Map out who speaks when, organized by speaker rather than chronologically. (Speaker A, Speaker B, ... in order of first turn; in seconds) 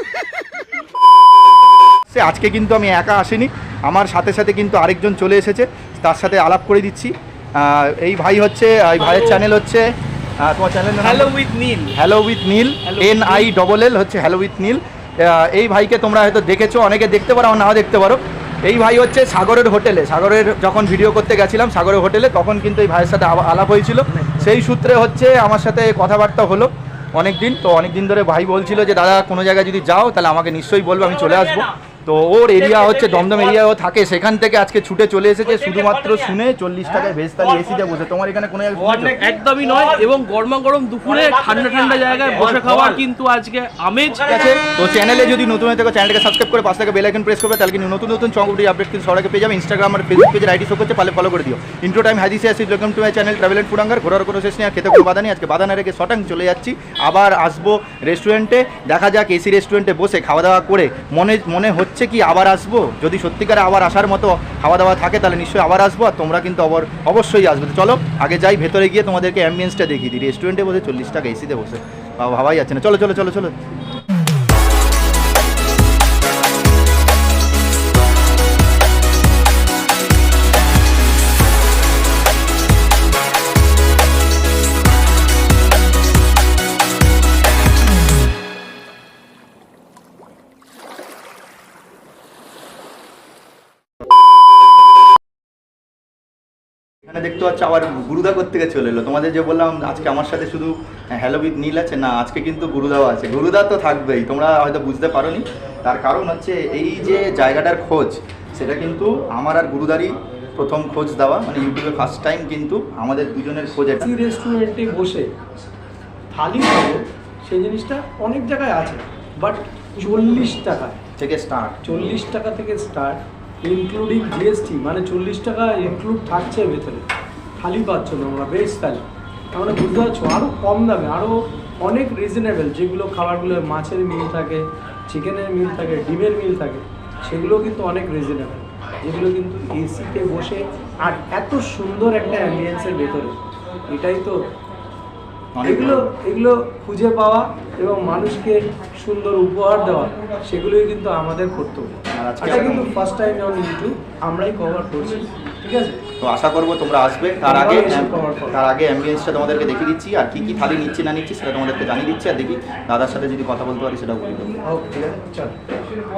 Speaker A: 2.1-9.9, 10.4-11.3, 11.9-39.2, 44.2-73.5, 97.0-114.1, 121.2-122.0, 145.6-146.1, 152.1-152.9, 156.2-164.6
Speaker B: 9.0-9.4, 11.0-11.9, 12.8-13.5, 33.1-33.4, 38.8-44.2
Speaker C: 114.0-115.3, 116.3-121.0, 121.8-127.1, 127.6-143.3, 143.9-144.4, 145.6-156.0, 157.4-158.6, 164.7-165.6